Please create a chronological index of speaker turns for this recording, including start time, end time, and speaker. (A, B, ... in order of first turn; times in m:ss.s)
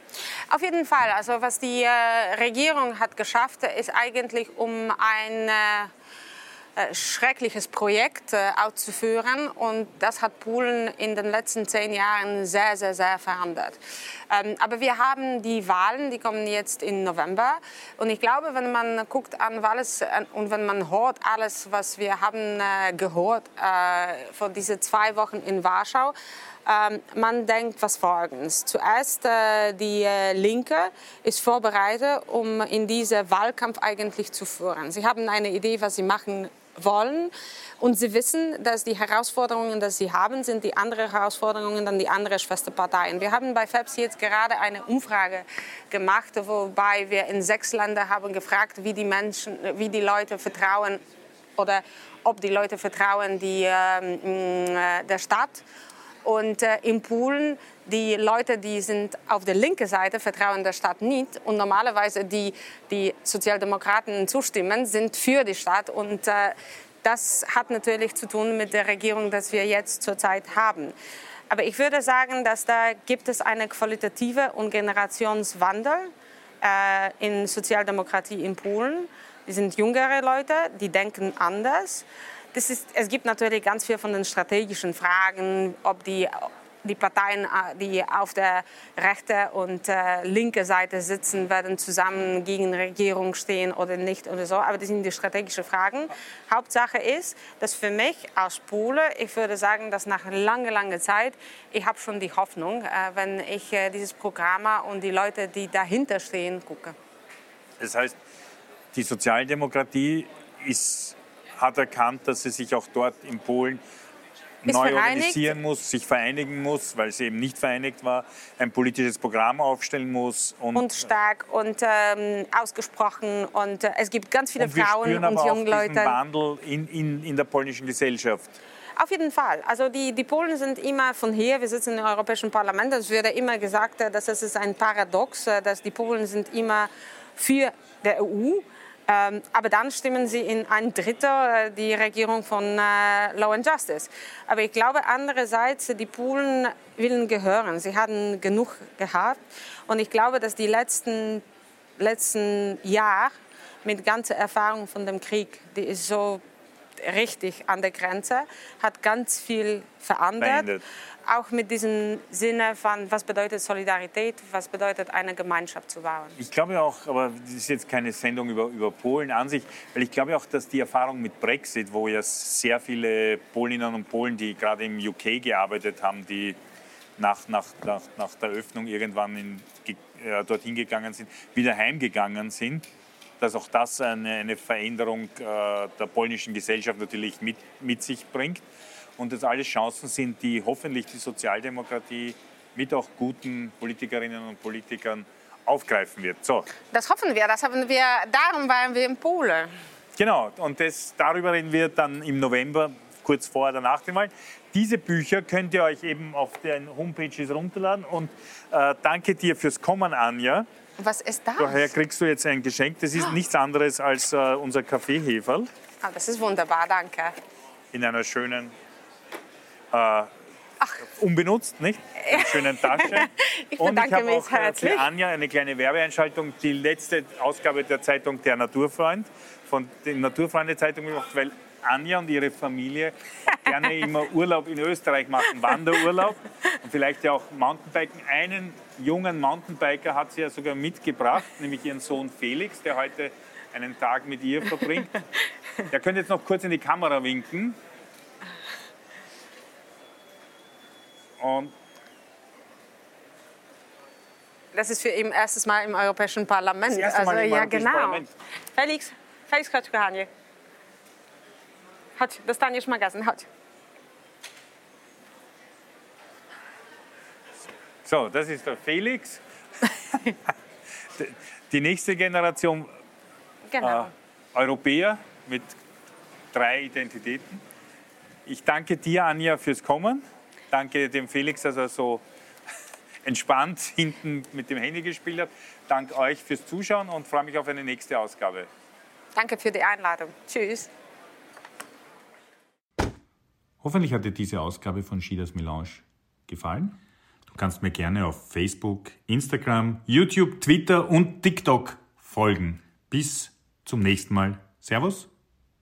0:00.5-0:05.9 A
0:06.8-0:13.8 A
0:14.3-0:26.1 A
0:26.6-0:51.0 A
0:51.6-0:55.6 A
0:56.2-1:10.9 A
1:11.5-1:16.1 A
1:16.6-1:47.0 A
1:47.8-1:48.2 B
1:48.9-1:53.8 B
1:54.6-2:00.9 B
1:54.6-1:55.5 A
2:00.7-2:06.2 A
2:04.6-2:08.6 B
2:09.0-2:31.4 A
2:32.0-2:33.3 A
2:33.8-2:36.4 A
2:37.0-2:40.7 A
2:40.4-2:40.8 B
2:41.3-2:46.4 A
2:46.4-2:56.6 B
2:57.2-3:02.8 B
3:03.4-3:08.6 B
3:09.2-3:16.7 B
3:16.9-3:19.7 A
3:20.2-3:30.7 B
3:31.0-3:31.9 A
3:31.6-3:35.7 B
3:36.0-3:37.3 A
3:37.9-3:38.7 B
3:39.9-3:40.3 B
3:41.0-4:05.2 B
3:42.2-3:45.0 A
4:05.9-4:07.8 B
4:11.4-4:11.7 B
4:14.7-4:20.3 A
4:16.9-4:18.3 B
4:22.2-4:23.5 A
4:28.0-4:29.4 B
4:31.1-4:32.9 B
4:33.7-4:34.1 A
4:33.8-4:35.7 B
4:36.5-4:37.6 B
4:38.4-4:42.2 B
4:43.2-4:48.7 B
4:49.3-4:50.9 A
4:53.8-5:05.3 B